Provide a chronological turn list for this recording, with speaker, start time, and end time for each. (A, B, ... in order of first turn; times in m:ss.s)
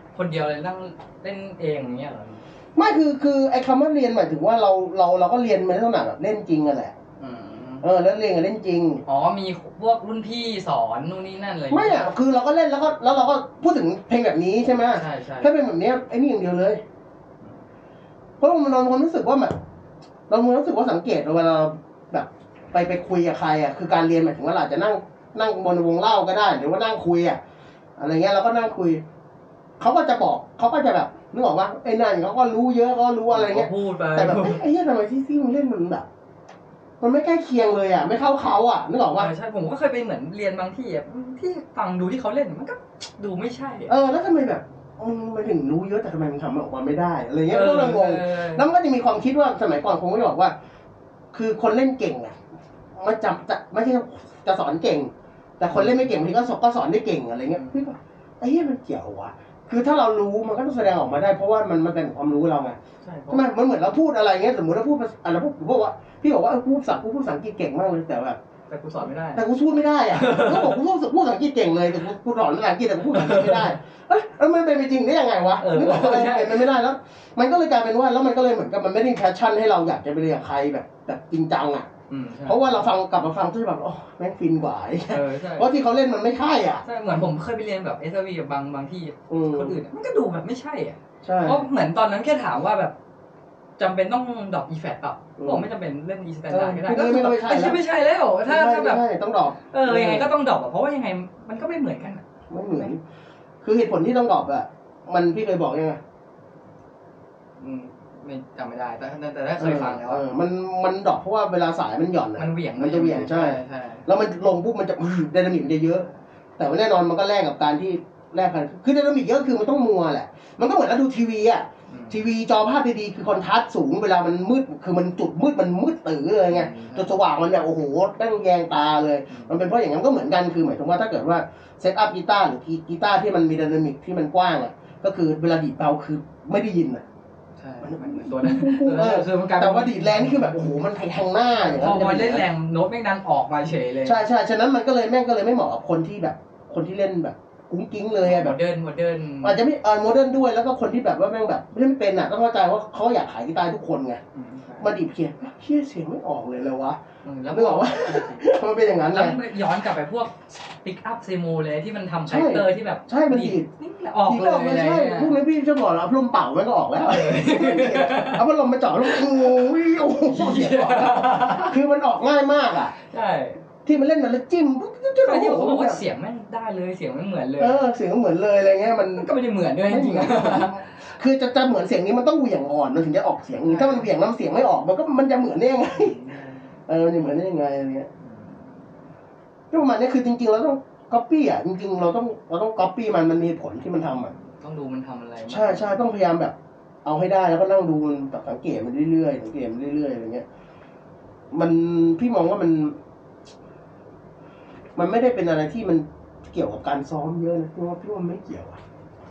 0:00.1-0:02.4 A
0:02.8-0:07.0 B
0:07.2-0:07.8 A
0:07.8-0:09.0 B
0:09.0-0:12.1 A
0:11.7-0:16.8 B
0:14.9-0:15.5 A
0:18.4-0:19.6 B
0:20.3-0:27.4 B
0:28.0-0:29.0 B
0:29.8-0:36.0 B
0:33.3-0:34.6 A
0:37.0-0:39.3 B
0:39.2-0:43.9 A
0:43.9-0:50.5 B
0:47.5-0:48.6 A
0:51.3-0:52.4 B
0:53.0-1:02.8 B
0:55.7-0:56.1 A
1:03.0-1:03.5 A
1:03.3-1:08.4 B
1:08.7-1:09.4 A
1:09.3-1:21.9 B
1:10.1-1:10.8 A
1:13.1-1:13.7 A
1:15.6-1:16.7 A
1:22.1-1:22.9 A
1:22.4-1:26.8 B
1:25.1-1:25.7 A
1:26.8-1:32.9 A
1:29.3-1:29.8 B
1:31.2-1:31.7 B
1:33.8-1:39.0 A
1:35.4-1:35.7 B
1:36.5-1:37.8 B
1:38.4-1:40.3 B
1:39.7-1:42.2 A
1:42.5-1:43.0 B
1:43.6-1:46.0 B
1:47.6-1:50.2 A
1:49.6-2:17.0 B
1:52.4-1:54.1 A
2:01.9-2:02.2 A
2:06.5-2:07.4 A
2:09.3-2:09.6 A
2:17.6-2:20.7 A
2:17.8-2:22.4 B
2:21.5-2:24.2 A
2:24.0-2:28.6 B
2:28.2-2:29.6 A
2:29.4-2:34.2 B
2:34.3-2:34.9 A
2:34.8-2:39.4 B
2:37.2-2:38.4 A
2:39.0-2:45.4 A
2:42.2-2:43.7 B
2:44.2-2:52.9 B
2:47.0-2:48.4 A
2:49.0-2:49.5 A
2:50.2-2:51.7 A
2:53.0-2:53.6 A
2:53.8-2:56.0 B
2:55.2-2:57.8 A
2:57.6-2:59.3 B
2:59.2-3:01.0 A
2:59.8-3:06.2 B
3:03.6-3:04.1 A
3:05.9-3:06.7 A
3:06.9-3:08.1 B
3:08.2-3:08.9 A
3:09.7-3:14.3 B
3:14.4-3:16.0 A
3:15.4-3:20.4 B
3:21.5-3:23.0 B
3:25.0-3:28.8 B